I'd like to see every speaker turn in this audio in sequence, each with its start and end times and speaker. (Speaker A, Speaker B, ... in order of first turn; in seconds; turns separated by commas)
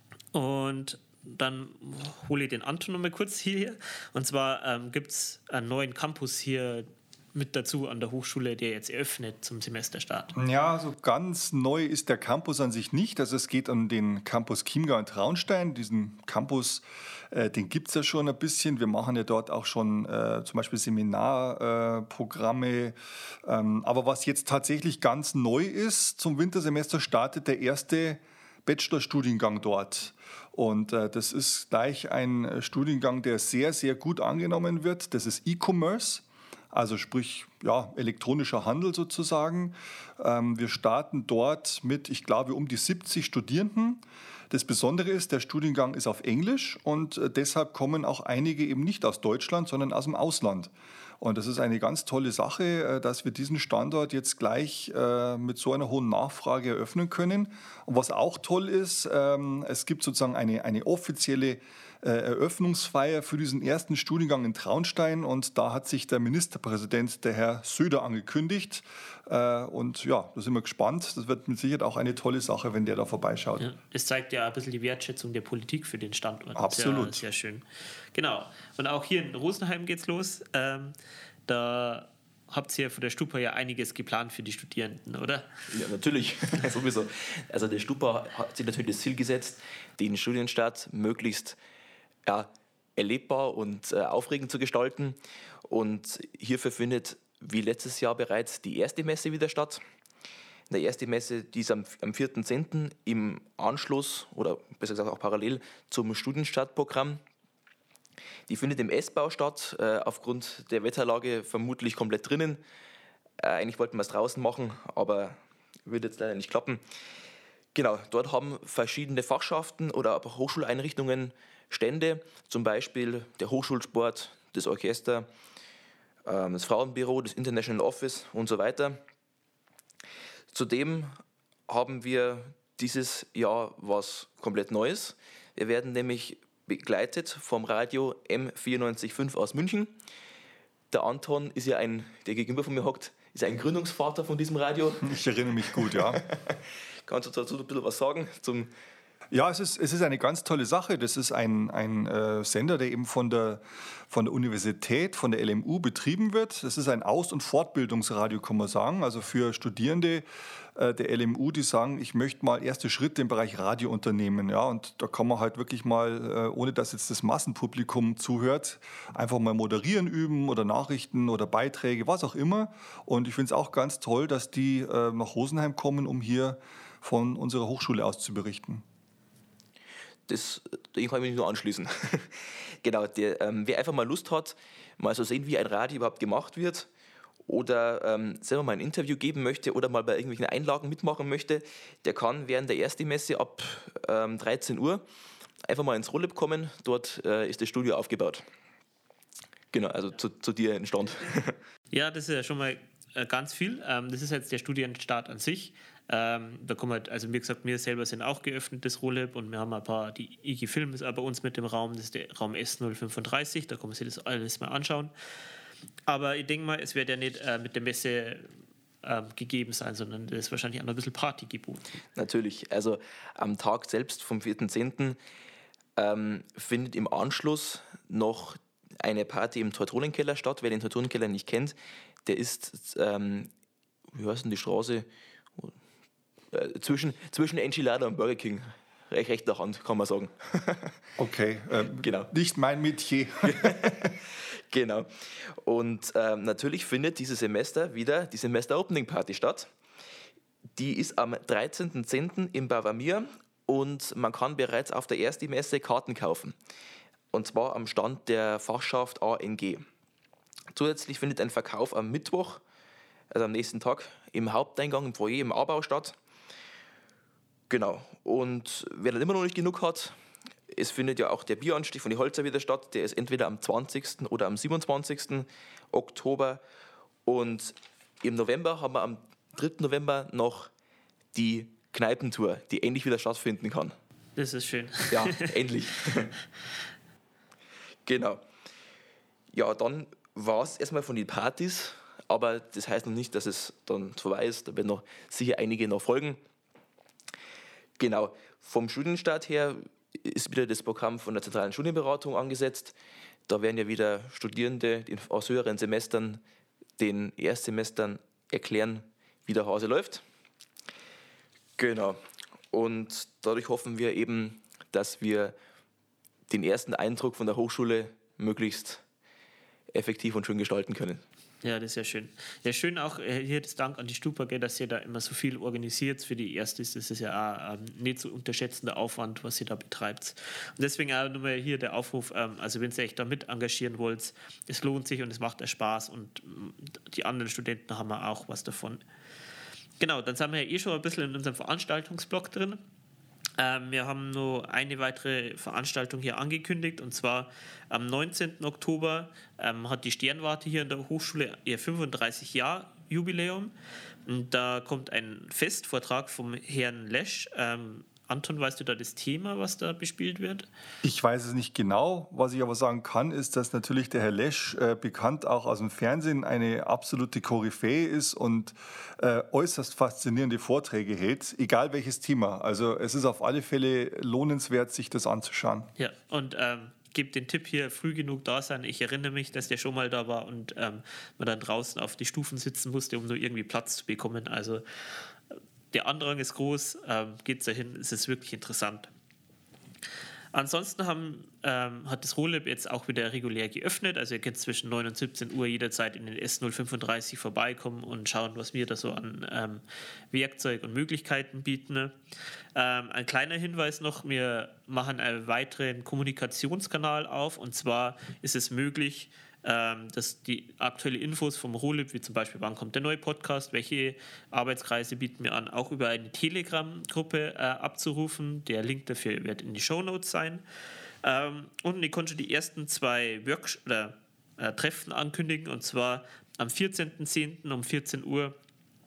Speaker A: 0.3-10.3, Speaker B: 10.4-73.7, Speaker A: 73.6-81.0, Speaker B: 76.6-77.2, Speaker A: 81.5-85.5, Speaker C: 85.7-91.6, Speaker C: 92.3-99.8, Speaker C: 100.7-107.2, Speaker C: 108.5-112.6, Speaker C: 113.4-116.8, Speaker C: 117.7-125.3, Speaker C: 126.3-129.0, Speaker C: 130.5-131.1, Speaker C: 131.7-139.9, Speaker C: 140.9-145.1, Speaker B: 145.0-146.2, Speaker C: 145.6-148.7, Speaker B: 149.3-178.8, Speaker C: 180.3-186.9, Speaker C: 187.5-195.0, Speaker C: 195.7-198.4, Speaker C: 199.7-201.6, Speaker A: 201.9-215.1, Speaker A: 216.1-218.5, Speaker A: 219.0-221.9, Speaker C: 222.2-225.2, Speaker C: 226.0-233.5, Speaker C: 234.1-235.8, Speaker C: 236.5-241.0, Speaker B: 241.2-244.1, Speaker C: 242.0-242.3, Speaker C: 243.4-249.7, Speaker C: 250.8-256.6, Speaker C: 257.3-259.9, Speaker C: 260.7-262.6, Speaker C: 263.3-266.2, Speaker C: 267.7-270.1, Speaker C: 270.7-276.6, Speaker C: 277.3-280.7, Speaker C: 281.3-283.9, Speaker A: 284.4-285.5, Speaker C: 285.1-286.3, Speaker C: 288.1-288.4, Speaker C: 289.5-296.4, Speaker C: 298.0-303.0, Speaker C: 303.5-306.4, Speaker C: 307.0-310.2, Speaker C: 311.8-312.2, Speaker C: 312.7-315.6, Speaker C: 316.5-319.0, Speaker C: 319.9-321.2, Speaker A: 321.6-339.0, Speaker A: 340.0-342.8, Speaker A: 343.6-353.7, Speaker A: 354.3-360.7, Speaker B: 361.0-375.9, Speaker A: 376.0-384.8, Speaker A: 385.5-389.1, Speaker A: 390.5-402.1, Speaker A: 402.8-420.6, Speaker A: 421.2-428.6